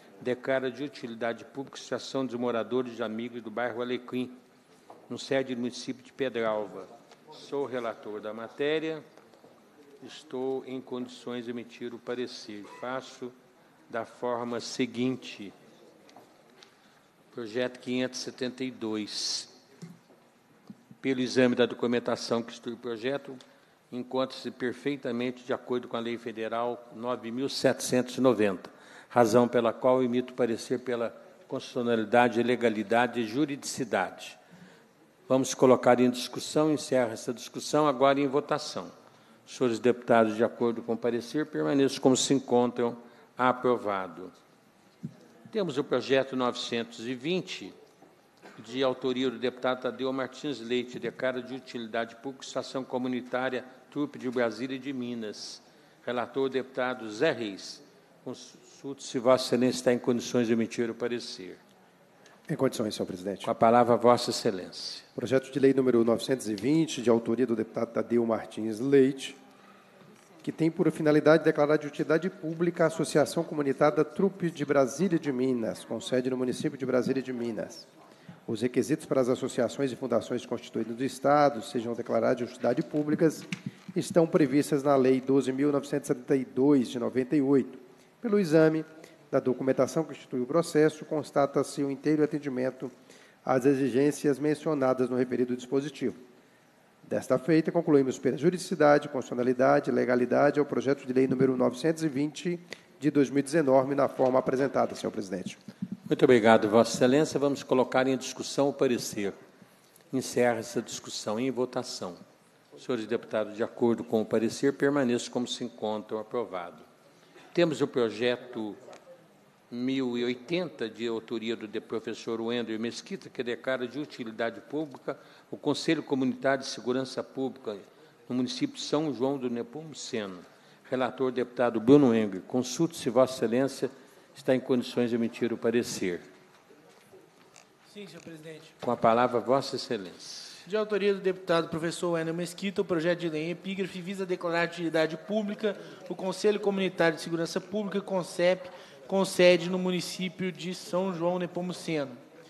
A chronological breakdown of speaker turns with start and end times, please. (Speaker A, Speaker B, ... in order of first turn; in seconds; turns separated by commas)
Speaker A: 0.2-4.4, Speaker A: 5.1-9.1, Speaker A: 10.0-13.3, Speaker A: 13.9-15.5, Speaker A: 17.3-19.5, Speaker A: 21.0-23.4, Speaker A: 23.9-34.4, Speaker A: 35.3-38.9, Speaker A: 39.5-44.3, Speaker A: 45.5-47.7, Speaker A: 48.6-61.6, Speaker B: 62.5-63.5, Speaker A: 63.4-65.0, Speaker B: 65.2-69.4, Speaker B: 70.4-77.9, Speaker B: 78.5-92.9, Speaker B: 93.5-96.2, Speaker B: 97.0-105.6, Speaker A: 106.1-109.4, Speaker A: 110.1-112.2, Speaker A: 112.8-116.8, Speaker A: 117.5-118.8, Speaker A: 119.7-136.2, Speaker C: 137.9-138.7, Speaker A: 138.8-140.6, Speaker C: 140.7-152.2